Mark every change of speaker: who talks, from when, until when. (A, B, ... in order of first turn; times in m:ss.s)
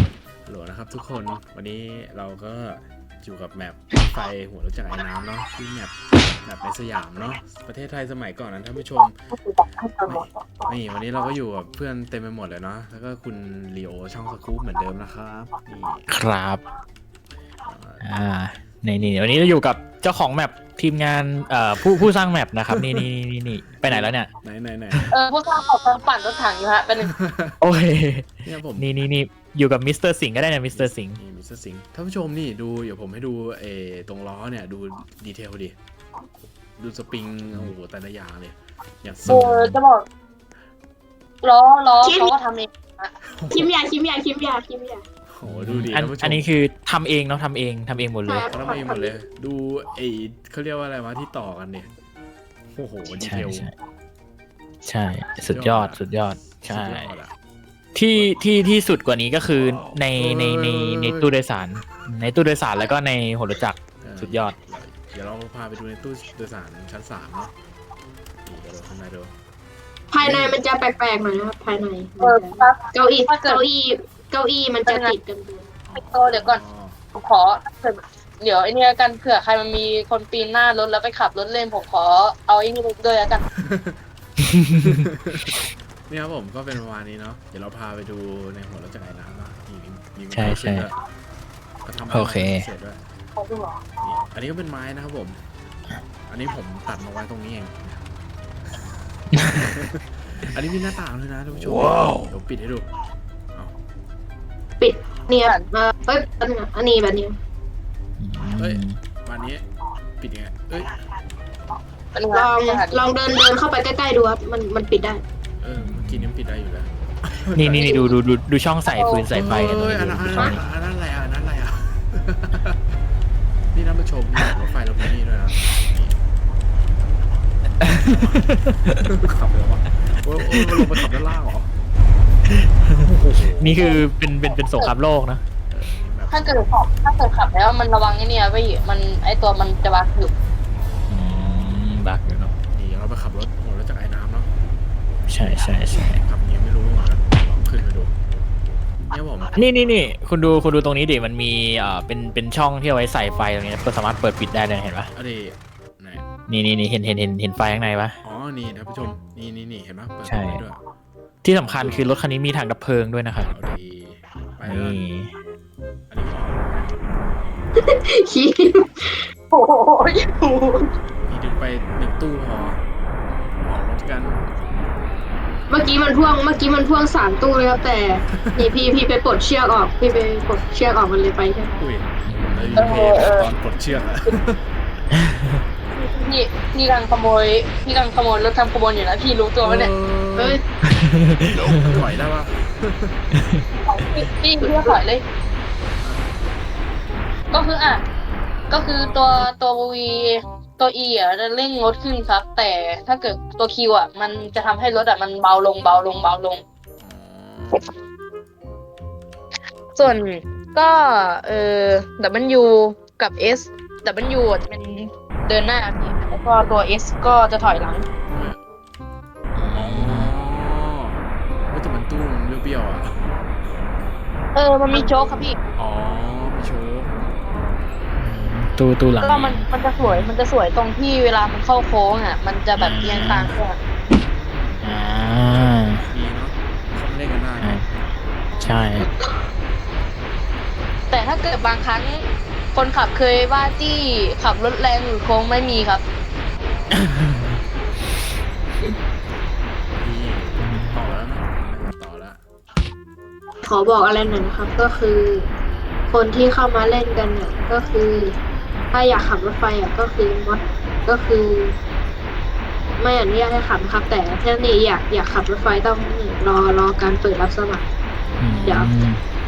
0:00.4-0:09.2 A
0:09.3-0:10.7 B
0:10.0-0:16.1 A
0:16.1-0:16.6 C
0:17.7-0:18.0 A
0:18.0-0:24.3 C
0:22.8-0:23.0 A
0:23.8-0:25.1 A
0:25.1-0:27.1 B
0:27.1-0:27.5 A
0:27.6-0:31.2 C
0:28.4-0:28.9 A
0:30.7-0:35.8 A
0:36.8-0:39.8 A
0:39.3-0:40.0 B
0:41.4-0:43.1 B
0:42.0-0:42.3 D
0:43.2-0:43.7 A
0:43.5-0:45.0 D
0:45.3-0:46.5 A
0:45.4-0:48.5 C
0:48.2-0:49.1 D
0:48.5-0:51.9 A
0:52.7-0:53.6 A
0:53.2-0:53.7 C
0:54.8-0:57.1 C
0:55.5-0:57.3 A
0:58.0-1:04.6 C
0:58.1-0:58.4 A
0:59.5-1:01.3 A
1:04.0-1:07.5 A
1:08.4-1:09.3 A
1:10.1-1:15.7 D
1:10.2-1:10.6 A
1:12.2-1:13.6 B
1:14.9-1:15.2 B
1:15.9-1:16.6 B
1:15.9-1:17.0 A
1:17.2-1:23.4 B
1:23.6-1:24.0 A
1:24.8-1:25.6 A
1:26.1-1:31.0 A
1:30.3-1:30.9 C
1:31.8-1:33.0 A
1:32.1-1:32.7 C
1:33.4-1:33.8 B
1:34.0-1:35.4 A
1:36.3-1:38.1 A
1:39.3-1:39.7 C
1:39.5-1:42.9 A
1:41.9-1:42.2 C
1:44.8-1:47.3 D
1:48.2-1:49.0 C
1:48.6-1:49.6 A
1:50.2-1:50.9 A
1:52.1-1:53.0 B
1:52.3-1:55.2 D
1:55.6-1:58.0 A
1:55.8-1:56.3 C
1:57.5-2:00.6 C
1:57.8-1:58.1 B
1:58.9-1:59.3 B
1:59.3-2:02.8 A
2:03.7-2:06.2 A
2:07.9-2:08.9 C
2:08.0-2:08.4 A
2:09.0-2:11.7 A
2:10.6-2:10.9 C
2:13.0-2:13.8 A
2:13.6-2:15.4 C
2:13.8-2:14.0 B
2:15.7-2:16.7 A
2:16.3-2:20.3 B
2:21.1-2:22.5 C
2:22.7-2:24.5 A
2:25.3-2:26.2 C
2:25.9-2:28.1 A
2:29.1-2:30.0 A
2:29.5-2:35.1 C
2:35.1-2:36.2 A
2:36.5-2:38.2 C
2:38.2-2:40.8 A
2:40.2-2:40.6 C
2:41.4-2:43.5 C
2:41.6-2:42.2 A
2:43.4-2:45.0 A
2:44.6-2:45.3 C
2:46.1-2:47.0 A
2:47.8-2:49.3 D
2:49.5-2:50.9 B
2:51.2-2:52.8 A
2:53.6-2:54.4 A
2:55.7-3:01.7 D
3:01.8-3:04.6 A
3:02.2-3:03.0 C
3:02.8-3:03.5 B
3:05.9-3:09.9 B
3:09.6-3:10.6 A
3:10.4-3:10.6 D
3:10.9-3:12.0 C
3:11.5-3:13.2 A
3:13.8-3:15.2 B
3:14.6-3:15.0 D
3:16.0-3:16.3 A
3:17.5-3:18.0 B
3:18.7-3:26.6 B
3:27.0-3:27.9 A
3:30.0-3:38.1 B
3:38.3-3:38.6 A
3:39.5-3:40.3 C
3:39.7-3:43.3 A
3:44.5-3:45.6 B
3:44.9-3:45.5 D
3:45.8-3:47.1 A
3:48.2-3:50.3 C
3:49.2-3:53.8 B
3:52.8-3:53.5 C
3:53.2-3:53.4 A
3:54.1-3:54.9 A
3:54.8-3:56.0 C
3:56.0-3:57.8 A
3:57.6-3:57.8 C
3:58.6-3:59.1 C
4:01.1-4:06.0 B
4:07.0-4:07.4 C
4:10.0-4:12.4 A
4:10.6-4:11.0 C
4:13.6-4:15.5 D
4:16.1-4:18.4 D
4:18.9-4:21.8 D
4:23.0-4:27.8 D
4:28.4-4:29.2 C
4:28.6-4:28.9 D